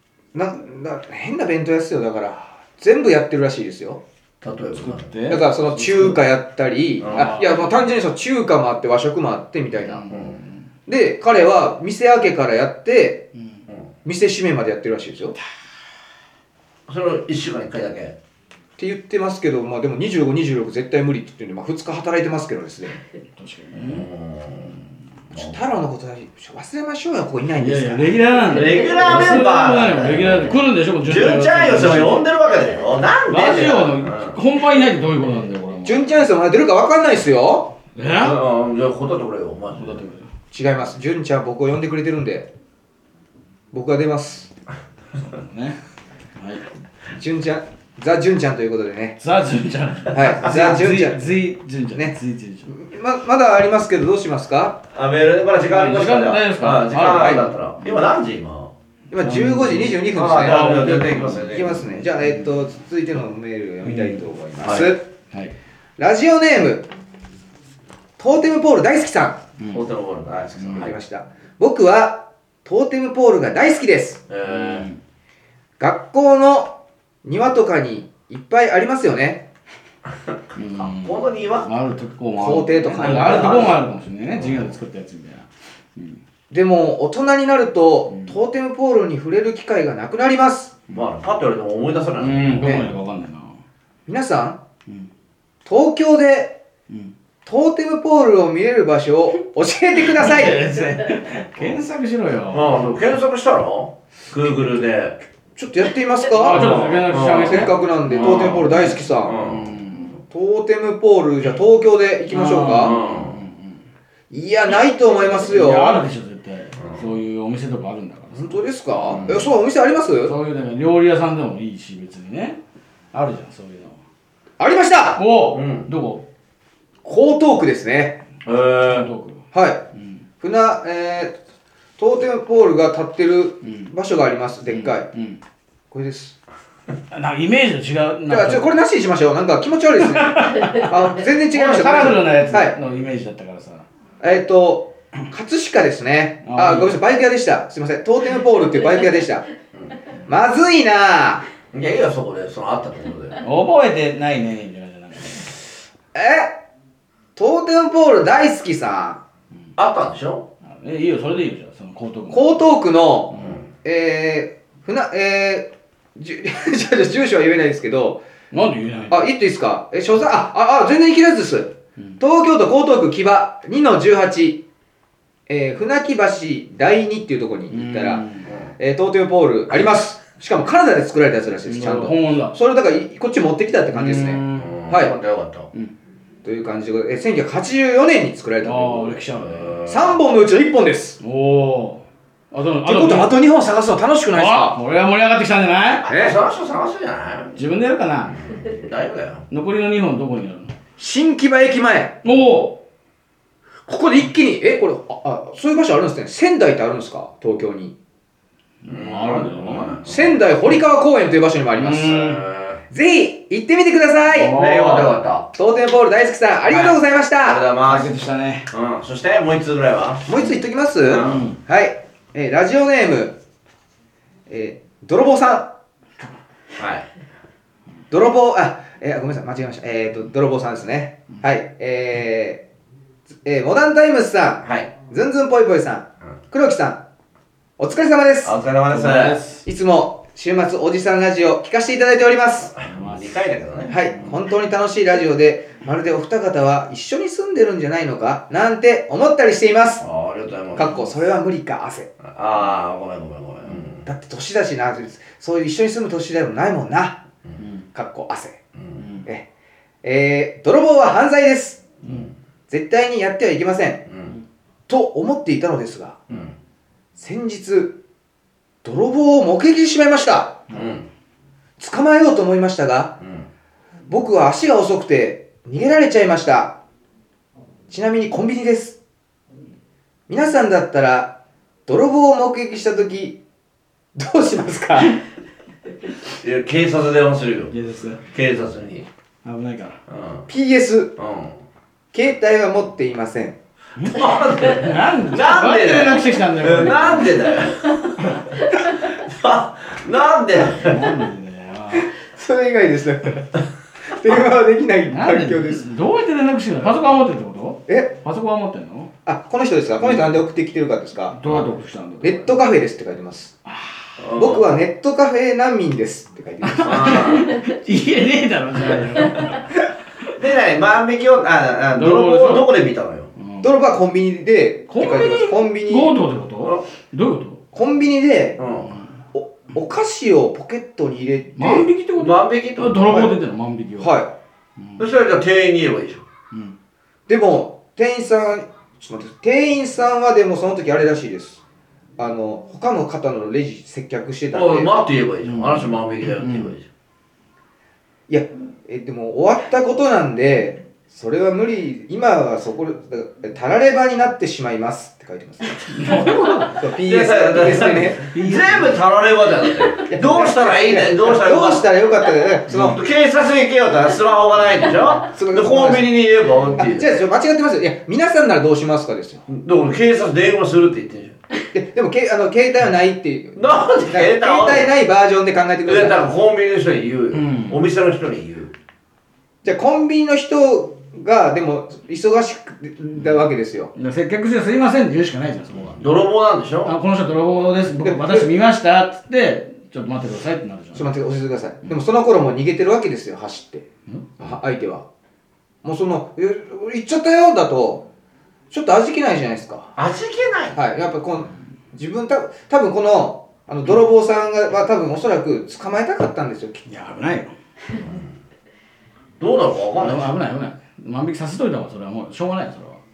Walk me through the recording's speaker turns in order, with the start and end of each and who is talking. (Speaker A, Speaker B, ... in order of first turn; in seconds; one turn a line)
Speaker A: 0.3-4.0
Speaker B: 4.4-5.1
Speaker C: 4.8-6.2
Speaker A: 5.3-10.1
Speaker B: 7.0-7.4
Speaker C: 7.1-7.9
Speaker C: 9.8-10.6
Speaker B: 10.1-10.4
Speaker A: 10.9-13.3
Speaker A: 14.1-15.4
Speaker B: 16.9-18.2
Speaker A: 18.8-23.0
Speaker C: 23.4-24.1
Speaker B: 23.8-24.7
Speaker A: 25.3-28.2
Speaker C: 27.6-32.3
Speaker B: 28.5-34.4
Speaker C: 33.3-36.1
Speaker A: 35.9-37.8
Speaker C: 38.0-38.4
Speaker B: 38.2-40.0
Speaker C: 39.8-40.3
Speaker A: 40.5-42.5
Speaker A: 43.7-44.5
Speaker C: 45.2-45.8
Speaker C: 46.4-46.6
Speaker A: 47.2-49.2
Speaker C: 49.2-52.7
Speaker A: 50.1-51.3
Speaker A: 52.7-54.8
Speaker B: 54.9-58.7
Speaker C: 55.7-57.9
Speaker A: 57.1-57.4
Speaker A: 59.1-65.0
Speaker C: 59.2-62.5
Speaker B: 60.1-61.8
Speaker C: 63.8-64.2
Speaker B: 64.6-65.0
Speaker A: 66.0-66.9
Speaker A: 68.2-69.4
Speaker C: 69.6-69.8
Speaker B: 69.7-71.0
Speaker C: 70.6-70.9
Speaker A: 70.7-74.2
Speaker B: 74.3-74.9
Speaker C: 74.5-75.0
Speaker A: 75.8-79.5
Speaker C: 80.5-86.2
Speaker B: 80.8-81.7
Speaker A: 82.4-83.8
Speaker B: 83.0-83.8
Speaker B: 84.4-84.7
Speaker A: 86.5-90.8
Speaker B: 90.9-92.7
Speaker C: 92.2-93.6
Speaker A: 94.1-94.6
Speaker A: 95.7-96.6
Speaker A: 97.5-100.7
Speaker C: 100.2-102.8
Speaker B: 102.5-105.2
Speaker A: 105.6-109.4
Speaker C: 106.3-110.2
Speaker B: 106.5-109.7
Speaker A: 110.3-113.0
Speaker C: 112.3-113.8
Speaker B: 112.8-113.4
Speaker A: 114.3-116.0
Speaker C: 115.4-119.4
Speaker A: 118.3-120.3
Speaker B: 119.1-119.4
Speaker C: 120.2-122.6
Speaker C: 123.1-124.0
Speaker A: 124.6-125.2
Speaker C: 125.2-126.2
Speaker B: 125.5-125.9
Speaker A: 127.0-128.2
Speaker B: 128.4-129.1
Speaker C: 128.9-129.4
Speaker A: 129.5-129.8
Speaker C: 129.9-130.2
Speaker A: 130.4-131.4
Speaker A: 132.0-135.1
Speaker C: 133.7-133.9
Speaker C: 134.7-135.4
Speaker A: 135.9-136.4
Speaker C: 137.1-138.7
Speaker A: 138.3-142.8
Speaker C: 140.0-143.8
Speaker A: 144.2-149.5
Speaker C: 146.4-146.9
Speaker A: 150.3-151.4
Speaker B: 151.7-153.4
Speaker C: 153.4-155.5
Speaker A: 156.1-156.6
Speaker A: 157.4-159.2
Speaker B: 159.8-160.5
Speaker C: 160.7-162.6
Speaker A: 162.3-168.2
Speaker C: 168.5-169.3
Speaker A: 169.1-174.6
Speaker A: 175.5-178.2
Speaker C: 177.7-178.5
Speaker A: 178.8-185.1
Speaker C: 181.7-182.6
Speaker C: 183.9-184.7
Speaker B: 184.6-185.7
Speaker A: 186.4-189.2
Speaker C: 188.6-189.8
Speaker B: 189.4-190.2
Speaker A: 189.9-191.2
Speaker C: 191.2-193.3
Speaker A: 192.8-194.8
Speaker C: 194.3-196.1
Speaker B: 196.0-197.6
Speaker A: 196.1-196.4
Speaker C: 197.6-198.4
Speaker B: 198.4-199.4
Speaker C: 199.5-200.7
Speaker A: 201.0-202.2
Speaker C: 202.2-202.8
Speaker A: 203.9-207.9
Speaker C: 208.8-210.1
Speaker B: 208.9-210.3
Speaker A: 210.1-212.2
Speaker C: 211.8-212.4
Speaker B: 212.0-212.8
Speaker A: 212.9-214.6
Speaker C: 214.3-215.2
Speaker B: 214.5-215.5
Speaker A: 215.5-217.6
Speaker C: 216.7-216.9
Speaker B: 217.4-218.2
Speaker C: 217.9-218.7
Speaker B: 218.7-220.3
Speaker A: 220.3-223.4
Speaker B: 221.1-221.5
Speaker C: 221.2-221.6
Speaker A: 224.5-225.7
Speaker B: 226.8-227.1
Speaker A: 228.1-232.6
Speaker A: 233.4-237.0
Speaker B: 234.6-234.9
Speaker A: 237.8-238.6
Speaker B: 238.4-239.4
Speaker C: 238.9-239.7
Speaker A: 239.7-242.7
Speaker B: 242.8-244.1
Speaker C: 242.8-243.4
Speaker A: 243.9-250.1
Speaker B: 250.0-251.0
Speaker A: 250.7-252.1
Speaker B: 252.2-254.1
Speaker A: 254.1-257.2
Speaker A: 257.9-258.6
Speaker C: 259.0-259.3
Speaker A: 260.0-261.9
Speaker B: 262.0-262.3
Speaker A: 262.7-264.1
Speaker B: 264.1-264.4
Speaker A: 264.9-266.2
Speaker A: 267.2-268.0
Speaker A: 268.8-270.6
Speaker B: 270.7-271.1
Speaker A: 271.8-273.2
Speaker B: 273.2-273.5
Speaker A: 274.1-276.8
Speaker A: 277.9-279.0
Speaker A: 280.3-281.4
Speaker A: 281.9-283.4
Speaker A: 284.1-285.2
Speaker B: 286.4-287.7
Speaker C: 287.7-288.2
Speaker B: 288.2-289.1
Speaker C: 289.4-290.0
Speaker B: 290.1-290.5
Speaker A: 290.5-291.2
Speaker B: 291.2-291.6
Speaker A: 292.1-293.6
Speaker C: 294.0-297.4
Speaker B: 294.1-298.3
Speaker B: 299.1-301.1
Speaker C: 300.7-302.1
Speaker A: 302.2-305.9
Speaker C: 305.1-309.1
Speaker A: 307.9-308.1
Speaker A: 309.3-311.5
Speaker C: 310.0-310.4
Speaker C: 311.4-312.5
Speaker A: 312.2-313.6
Speaker B: 314.2-314.7
Speaker A: 314.4-317.4
Speaker C: 316.6-319.6
Speaker B: 316.8-317.5
Speaker B: 320.4-323.3
Speaker C: 322.0-322.7
Speaker C: 323.4-323.7
Speaker A: 323.6-326.2
Speaker C: 324.9-327.6
Speaker A: 327.7-328.6
Speaker B: 328.6-329.0
Speaker A: 329.3-331.9
Speaker C: 331.6-334.1
Speaker B: 332.2-333.2
Speaker A: 333.1-333.3
Speaker A: 334.0-334.3
Speaker B: 335.0-336.2
Speaker A: 337.3-341.6
Speaker A: 342.2-344.9
Speaker B: 344.5-346.9
Speaker C: 345.4-346.7
Speaker A: 348.3-358.3
Speaker C: 355.9-356.8
Speaker B: 357.0-361.9
Speaker C: 358.3-359.0
Speaker A: 360.1-363.0
Speaker B: 362.7-367.1
Speaker A: 365.2-366.2
Speaker A: 366.8-369.4
Speaker B: 369.5-371.4
Speaker A: 371.7-376.3
Speaker B: 373.6-374.9
Speaker B: 375.9-378.7
Speaker C: 377.3-377.8
Speaker A: 379.6-383.9
Speaker C: 383.9-386.0
Speaker B: 385.9-386.9
Speaker C: 386.9-391.1
Speaker A: 388.0-388.5
Speaker A: 390.9-393.9
Speaker C: 394.1-394.5
Speaker A: 394.4-395.1
Speaker A: 395.8-398.1
Speaker A: 398.7-399.9
Speaker B: 400.0-400.8
Speaker A: 400.8-406.9
Speaker C: 406.9-407.5
Speaker B: 408.0-408.3
Speaker B: 409.4-410.3
Speaker C: 410.0-413.0